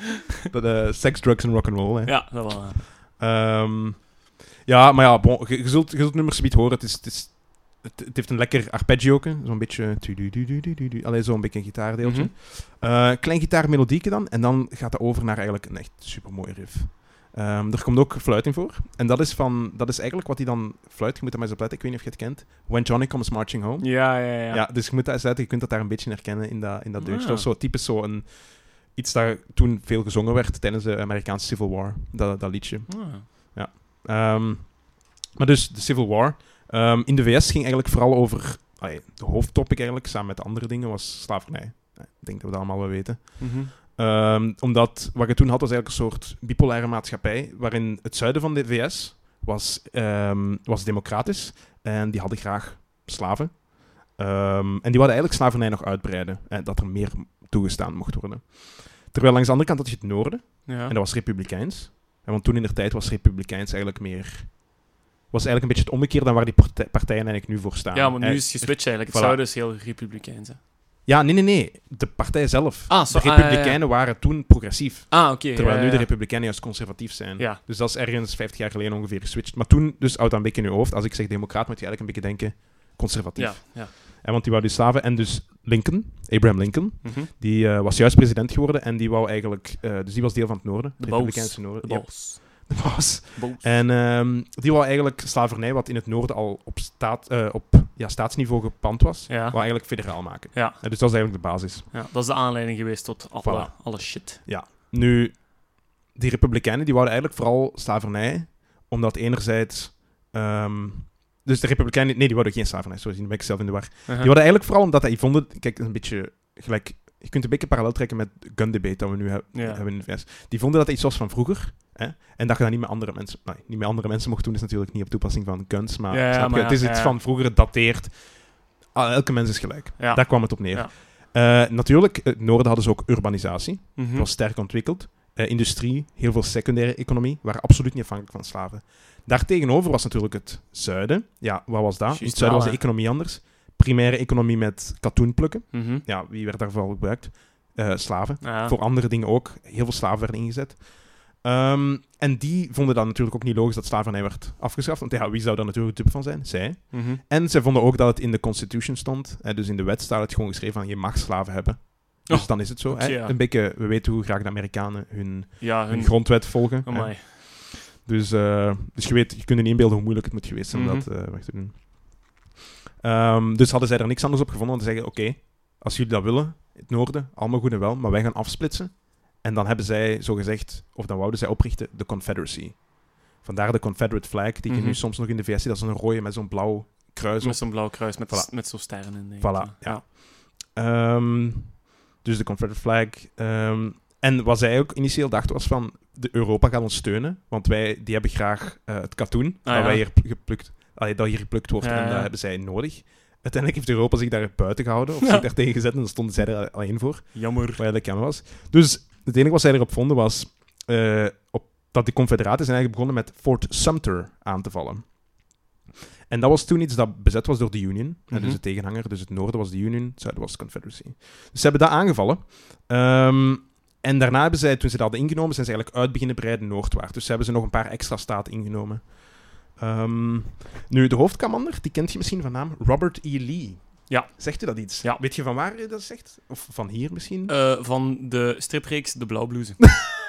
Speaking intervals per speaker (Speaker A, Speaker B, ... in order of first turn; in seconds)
Speaker A: 0.5-69.4, 71.0-101.9, 103.4-172.5, 173.0-215.5, 216.3-237.6
Speaker B: 2.0-2.8, 12.0-12.3, 23.8-24.6, 27.0-27.5, 32.9-33.3, 43.4-43.7, 60.7-61.0, 67.9-70.6, 72.9-73.8, 75.1-76.1, 83.3-83.9, 87.0-87.3, 91.0-93.7, 99.3-104.4, 114.1-114.3, 119.5-119.8, 126.1-127.2, 130.0-130.9, 134.0-134.3, 142.1-142.8, 145.7-146.1, 148.4-148.8, 156.9-157.2, 162.3-163.4, 165.6-167.3, 170.7-171.1, 184.7-185.0, 187.4-190.0, 199.7-200.0, 201.8-202.3, 207.3-207.8, 218.3-218.6, 234.1-235.2, 237.5-240.1